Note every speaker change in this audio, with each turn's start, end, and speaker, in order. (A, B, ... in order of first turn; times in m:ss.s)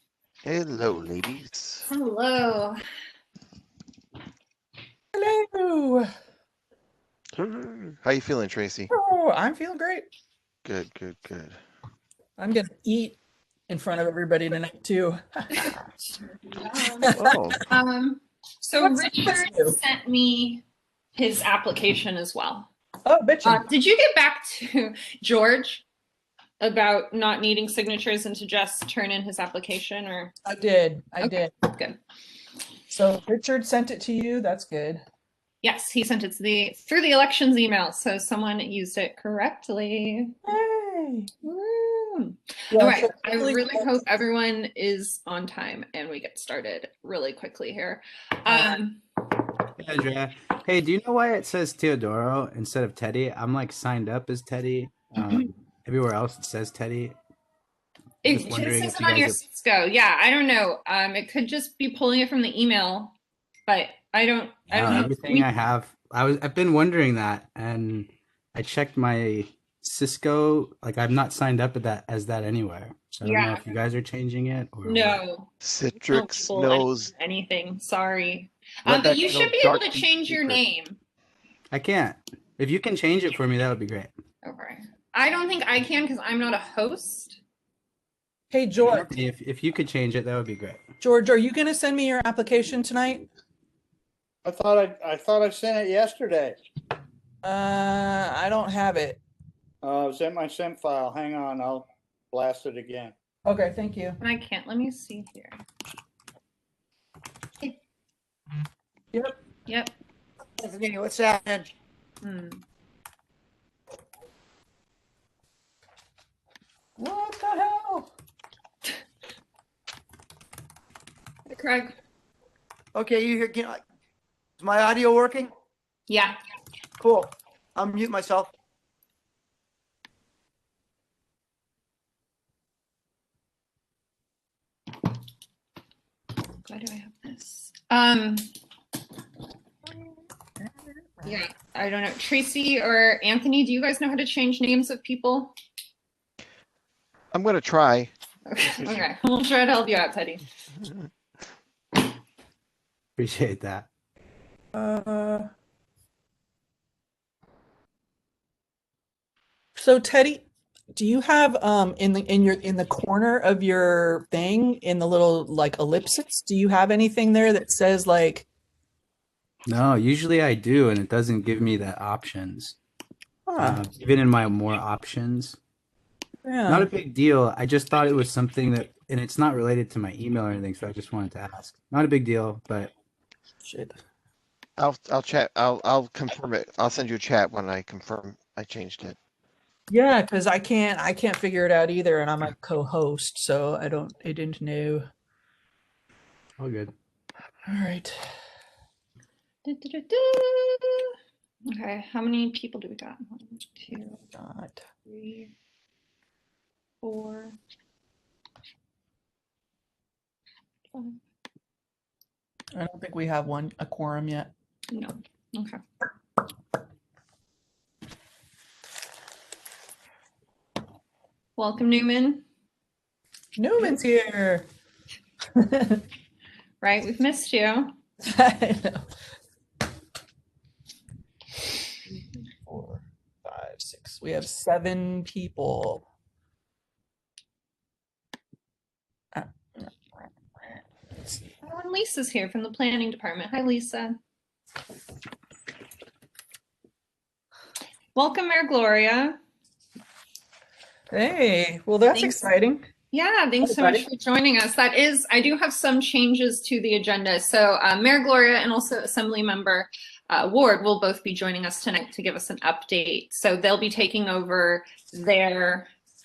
0:00.4-0:01.8 A
0:01.9-0:02.8 B
0:05.1-0:06.1 C
0:07.3-0:08.9 A
0:08.9-0:10.0 C
0:10.6-0:11.6 A
0:12.4-0:13.2 C
0:13.7-0:15.7 C
0:16.4-0:17.1 B
0:17.0-0:17.6 C
0:17.2-0:17.6 A
0:17.7-0:20.6 B
0:18.8-0:19.8 C
0:21.1-0:22.7 B
0:23.0-0:23.6 C
0:23.4-0:25.8 B
0:26.6-0:30.3 B
0:30.4-0:31.5 C
0:31.2-0:32.0 B
0:32.9-0:35.0 C
0:35.6-0:40.3 B
0:40.4-0:41.3 C
0:41.4-0:49.0 B
0:42.7-0:43.9 C
0:48.4-0:48.8 C
0:49.8-0:57.2 D
0:58.2-1:03.1 B
0:58.3-0:59.4 D
1:03.7-1:05.5 B
1:04.7-1:15.2 D
1:13.2-1:13.6 B
1:14.8-1:21.0 B
1:15.6-1:17.1 A
1:18.8-1:20.6 A
1:21.7-1:24.1 D
1:24.4-1:27.4 B
1:28.5-1:29.1 C
1:28.8-1:30.8 D
1:31.0-1:33.3 C
1:34.4-1:36.6 E
1:37.4-1:39.2 C
1:39.8-1:43.1 E
1:43.4-1:44.2 C
1:44.2-1:45.6 B
1:49.7-1:49.9 B
1:50.6-1:51.7 F
1:52.2-1:52.6 B
1:57.0-1:58.1 C
2:01.5-2:01.9 B
2:02.9-2:03.8 F
2:04.6-2:05.5 F
2:06.1-2:06.4 B
2:07.0-2:08.5 F
2:16.6-2:18.5 B
2:21.2-2:25.5 B
2:27.3-2:28.1 A
2:28.4-2:30.4 B
2:30.8-2:31.1 A
2:33.2-2:33.9 D
2:34.7-2:35.5 C
2:39.8-2:48.4 C
2:49.7-2:52.8 D
2:53.4-2:53.8 C
2:53.6-2:55.6 D
2:56.4-2:56.9 C
2:56.7-3:02.9 D
3:03.6-3:04.0 C
3:04.8-3:09.2 A
3:09.9-3:15.0 C
3:16.6-3:16.9 D
3:17.7-3:18.2 C
3:19.6-3:21.2 B
3:21.7-3:24.2 B
3:24.3-3:24.8 C
3:25.0-3:25.5 B
3:27.0-3:27.6 B
3:30.9-3:31.2 B
3:32.7-3:34.5 C
3:34.9-3:35.8 B
3:41.6-3:42.4 B
3:43.6-3:44.6 C
3:45.6-3:46.0 C
3:46.8-3:47.9 B
3:48.2-3:49.0 C
3:52.6-3:56.0 C
3:59.3-4:01.4 C
4:01.6-4:04.2 B
4:08.1-4:09.4 B
4:11.1-4:12.8 C
4:12.1-4:12.4 B
4:13.1-4:25.9 B
4:13.6-4:14.1 C